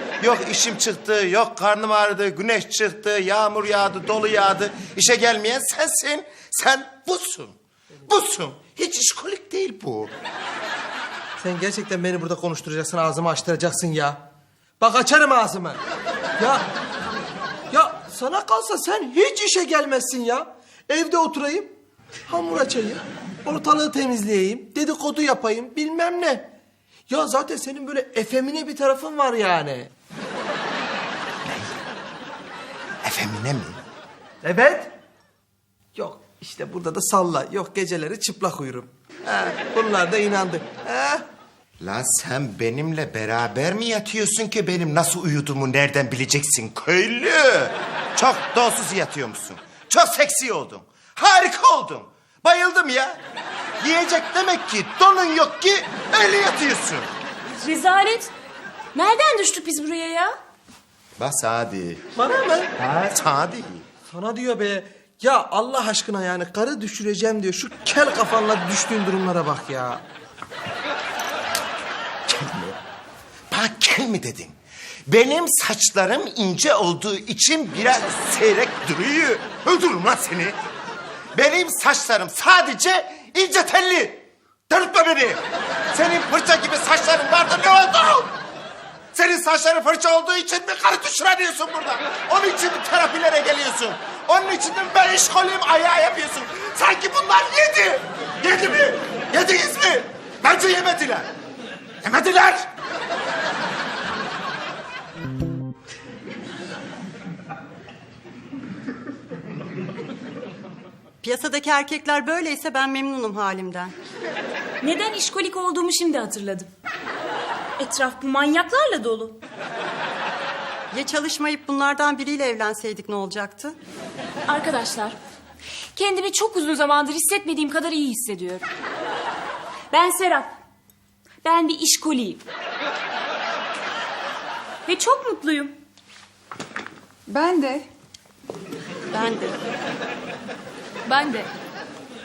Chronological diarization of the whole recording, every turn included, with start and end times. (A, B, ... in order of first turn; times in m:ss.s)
0:00.2-0:10.1 A
0:11.4-0:14.2 B
0:14.8-0:15.8 B
0:16.4-0:16.7 B
0:17.7-0:21.7 B
0:22.3-0:26.5 B
0:27.1-0:29.9 B
0:31.4-0:31.7 A
0:33.0-0:33.8 A
0:34.4-0:35.0 B
0:35.9-0:41.2 B
0:41.8-0:53.2 A
0:53.8-0:57.1 A
0:57.5-0:58.3 C
0:58.9-1:00.3 C
1:01.2-1:02.0 A
1:02.2-1:02.8 B
1:02.8-1:03.9 A
1:04.1-1:10.0 B
1:12.2-1:12.8 A
1:13.5-1:20.6 A
1:21.3-1:28.4 A
1:29.1-1:41.3 A
1:42.0-1:42.7 A
1:51.2-1:54.0 D
1:54.8-1:56.7 C
1:57.8-1:59.4 C
2:00.9-2:03.8 D
2:04.5-2:05.2 C
2:05.9-2:08.7 C
2:09.9-2:10.5 C
2:11.4-2:12.4 C
2:14.8-2:15.8 C
2:19.1-2:19.6 D
2:21.0-2:21.5 C